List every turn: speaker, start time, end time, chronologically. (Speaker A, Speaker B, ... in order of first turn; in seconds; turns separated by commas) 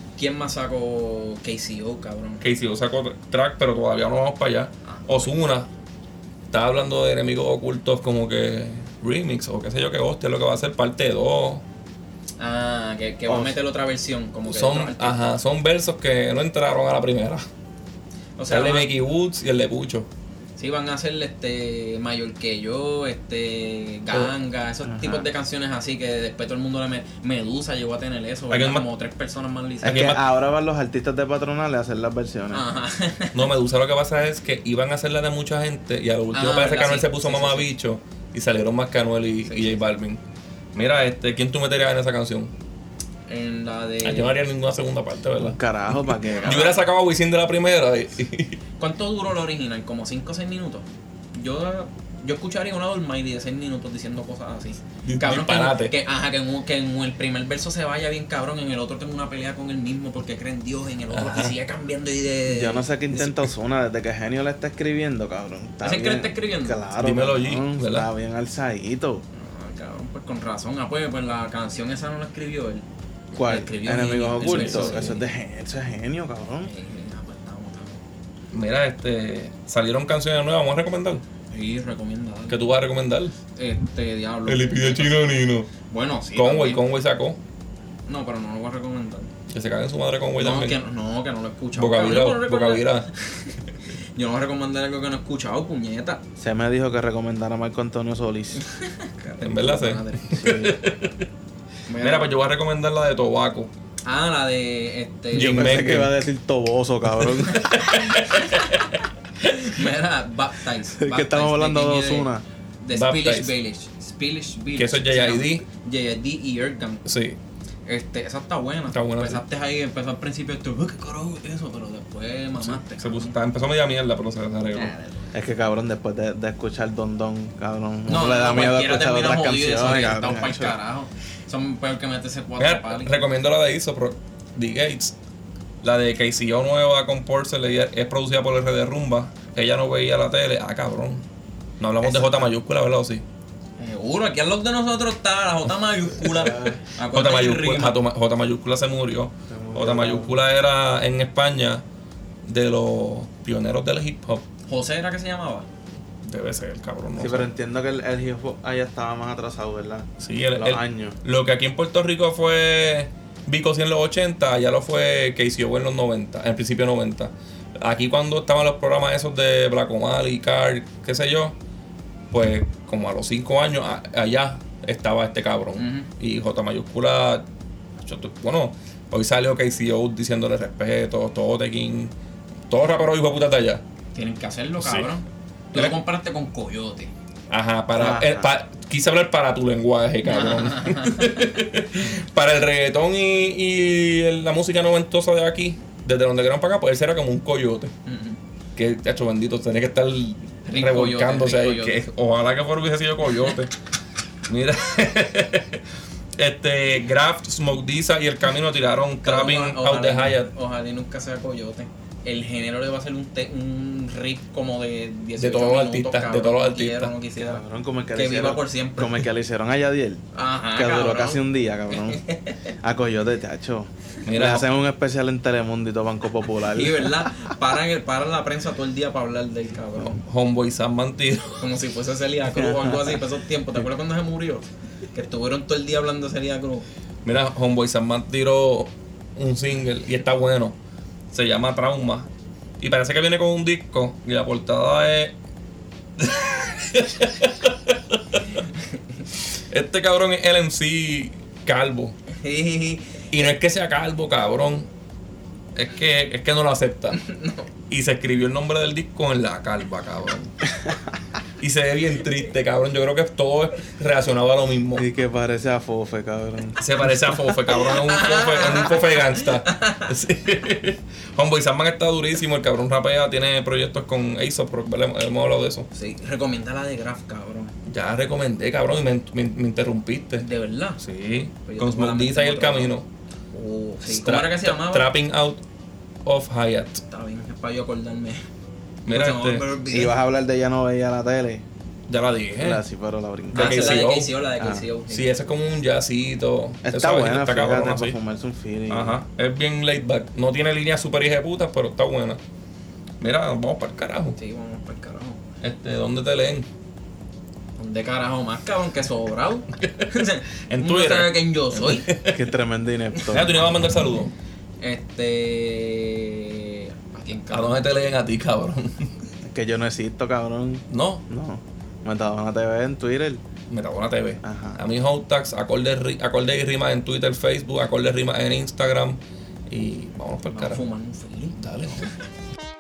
Speaker A: 0.2-2.4, Speaker B: 2.4-5.7, Speaker A: 4.8-5.3, Speaker B: 6.5-11.6, Speaker A: 12.4-15.2, Speaker C: 13.3-13.5, Speaker B: 14.5-17.4, Speaker A: 18.4-18.9, Speaker B: 18.5-20.1, Speaker A: 20.6-30.1, Speaker C: 24.8-25.3, Speaker B: 28.5-28.9, Speaker C: 29.8-32.6, Speaker B: 29.9-30.2, Speaker A: 32.5-33.5, Speaker B: 33.3-40.2, Speaker A: 36.3-37.7, Speaker A: 39.4-39.8, Speaker B: 40.7-42.5, Speaker A: 43.3-44.4, Speaker B: 44.0-45.6, Speaker C: 45.4-46.7, Speaker A: 46.2-46.8, Speaker B: 46.4-48.6, Speaker A: 48.8-62.9, Speaker B: 55.0-55.9, Speaker B: 61.1-61.6, Speaker C: 62.5-69.2, Speaker A: 65.8-66.9, Speaker B: 67.0-68.1, Speaker A: 69.3-75.2, Speaker C: 73.3-76.7, Speaker B: 74.3-75.2, Speaker A: 76.6-78.0, Speaker B: 78.5-81.2, Speaker A: 81.5-82.6, Speaker B: 82.5-83.3, Speaker A: 83.6-86.8, Speaker B: 84.5-85.7, Speaker B: 86.3-87.4, Speaker A: 88.1-89.3, Speaker B: 89.5-90.8, Speaker A: 90.4-93.5, Speaker B: 91.7-93.1, Speaker A: 94.1-96.2, Speaker C: 96.4-98.6, Speaker A: 98.7-100.4, Speaker B: 99.4-101.3, Speaker C: 100.4-100.8, Speaker A: 101.9-102.3, Speaker B: 102.0-103.7, Speaker A: 104.0-106.0, Speaker B: 105.3-106.1, Speaker C: 105.4-107.8, Speaker A: 107.5-108.9, Speaker B: 107.7-108.9, Speaker A: 109.6-112.3, Speaker C: 111.0-112.4, Speaker A: 112.8-117.0, Speaker B: 112.9-113.5, Speaker B: 114.8-115.6, Speaker B: 117.1-117.4, Speaker A: 117.9-123.3, Speaker B: 118.9-119.4, Speaker B: 122.6-124.9, Speaker A: 124.7-125.3, Speaker C: 125.3-130.7, Speaker A: 128.1-133.2, Speaker B: 132.6-135.1, Speaker B: 135.8-141.2, Speaker B: 141.8-143.2, Speaker C: 142.0-142.5, Speaker A: 143.8-148.0, Speaker C: 146.3-146.8, Speaker B: 147.1-151.8, Speaker C: 149.5-150.4, Speaker B: 152.4-154.4, Speaker A: 154.7-155.7, Speaker B: 156.2-157.5, Speaker C: 157.2-161.1, Speaker B: 160.2-171.6, Speaker B: 172.3-177.4, Speaker A: 175.8-176.1, Speaker B: 178.0-182.1, Speaker B: 182.7-183.8, Speaker A: 184.1-187.1, Speaker B: 184.8-185.1, Speaker B: 187.5-197.9, Speaker C: 187.9-188.5, Speaker A: 190.2-191.4, Speaker A: 198.1-198.4, Speaker B: 198.8-203.7, Speaker A: 200.7-202.0, Speaker B: 204.5-205.8, Speaker B: 206.4-210.5, Speaker A: 209.2-217.6, Speaker B: 215.4-217.1, Speaker C: 217.4-220.2, Speaker A: 218.1-219.2, Speaker A: 220.3-222.6, Speaker C: 220.7-222.2, Speaker C: 222.8-227.3, Speaker B: 224.2-224.7, Speaker A: 226.7-230.2, Speaker B: 230.0-231.7, Speaker A: 231.6-236.9, Speaker C: 232.6-233.2, Speaker B: 237.2-240.8, Speaker B: 241.3-242.3, Speaker B: 242.8-245.3, Speaker B: 246.2-248.6, Speaker B: 249.7-252.1, Speaker A: 252.3-253.3, Speaker B: 253.3-254.9, Speaker B: 255.7-257.2, Speaker A: 257.1-257.7, Speaker B: 257.9-260.5, Speaker B: 261.6-265.1, Speaker C: 264.9-267.2, Speaker B: 266.8-275.9, Speaker A: 267.7-270.1, Speaker A: 275.9-277.7, Speaker B: 277.9-280.4, Speaker A: 280.4-281.0, Speaker B: 281.0-283.1, Speaker A: 281.6-282.9, Speaker A: 283.5-285.1, Speaker B: 284.1-285.6, Speaker B: 286.2-287.0, Speaker A: 287.1-288.4, Speaker B: 289.1-289.6, Speaker A: 289.1-290.1, Speaker C: 289.9-291.6, Speaker B: 292.1-292.8, Speaker C: 292.6-294.0, Speaker B: 293.5-294.3, Speaker A: 293.5-295.3, Speaker C: 294.6-294.8, Speaker B: 295.1-298.2, Speaker C: 296.8-299.2, Speaker B: 298.9-302.4, Speaker B: 303.2-304.4, Speaker A: 304.3-305.4, Speaker B: 305.6-306.7, Speaker A: 307.8-312.1, Speaker B: 309.8-310.1, Speaker B: 310.7-312.4, Speaker C: 312.3-313.6, Speaker B: 313.3-314.3, Speaker A: 314.8-317.8, Speaker B: 317.5-319.1, Speaker C: 319.4-323.4, Speaker B: 320.9-321.2, Speaker B: 323.7-330.8, Speaker C: 324.4-324.8, Speaker A: 330.5-331.6, Speaker B: 331.6-332.1